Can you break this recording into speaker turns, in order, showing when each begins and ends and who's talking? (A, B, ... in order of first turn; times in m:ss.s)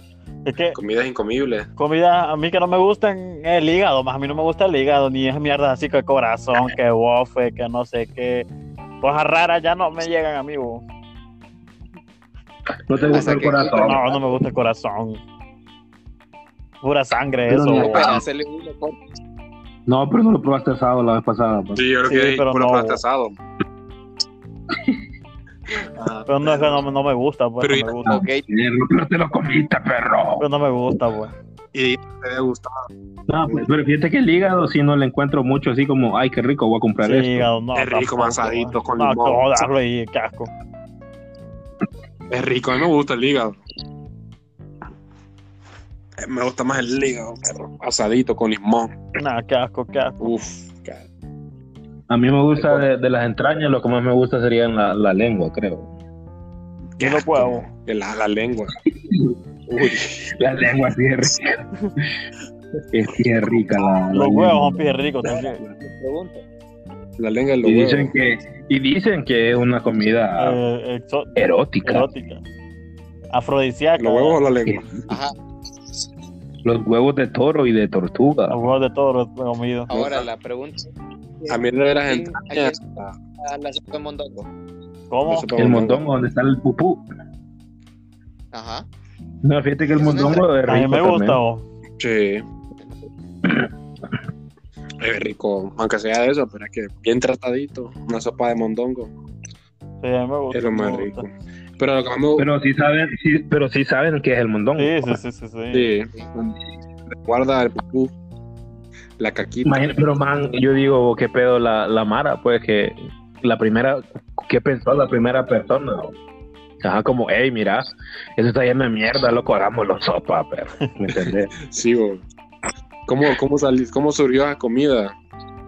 0:00.4-0:00.8 A
0:00.8-0:01.7 B
0:01.8-0:08.5 A
0:09.0-0:10.8 A
0:12.9-0:14.1 C
0:13.1-0:14.2 D
0:13.5-0:15.2 A
0:16.8-0:18.2 A
0:17.5-0:18.2 C
0:17.7-0:19.0 D
0:19.9-0:21.8 C
0:21.8-0:23.4 B
0:22.1-0:23.0 A
0:26.0-0:26.8 B
0:26.3-0:28.2 A
0:27.6-0:28.0 B
0:28.0-0:28.5 D
0:28.0-0:30.5 C
0:30.4-0:31.3 A
0:31.7-0:32.9 B
0:33.3-0:37.5 C
0:37.0-0:40.5 A
0:37.7-0:39.7 B
0:42.3-0:43.6 B
0:46.2-0:49.0 B
0:49.2-0:50.4 A
0:50.2-0:51.1 B
0:52.1-0:55.9 C
0:52.6-0:52.9 B
0:57.0-0:58.8 B
0:57.0-0:57.7 A
0:58.9-0:59.4 C
0:59.7-1:00.3 B
1:00.3-1:02.1 C
1:02.9-1:05.0 C
1:04.1-1:05.6 A
1:05.2-1:06.4 D
1:07.2-1:08.1 B
1:07.6-1:10.6 C
1:10.4-1:12.4 A
1:11.4-1:12.1 C
1:13.3-1:14.4 A
1:14.0-1:15.0 B
1:15.1-1:15.4 D
1:16.6-1:18.6 C
1:18.5-1:19.9 A
1:19.9-1:24.5 D
1:19.9-1:20.3 B
1:21.5-1:23.2 B
1:25.1-1:25.5 A
1:25.2-1:26.0 B
1:25.6-1:27.0 C
1:28.5-1:28.9 D
1:29.4-1:31.4 C
1:30.0-1:30.5 D
1:30.7-1:31.6 A
1:32.0-1:32.4 B
1:35.0-1:39.1 B
1:40.0-1:41.2 A
1:40.5-1:42.5 B
1:42.4-1:45.2 C
1:44.8-1:45.9 A
1:45.7-1:46.5 B
1:47.3-1:48.1 B
1:49.2-1:49.9 B
1:49.6-1:56.2 C
1:56.8-2:01.5 C
2:01.2-2:02.2 B
2:03.1-2:05.2 B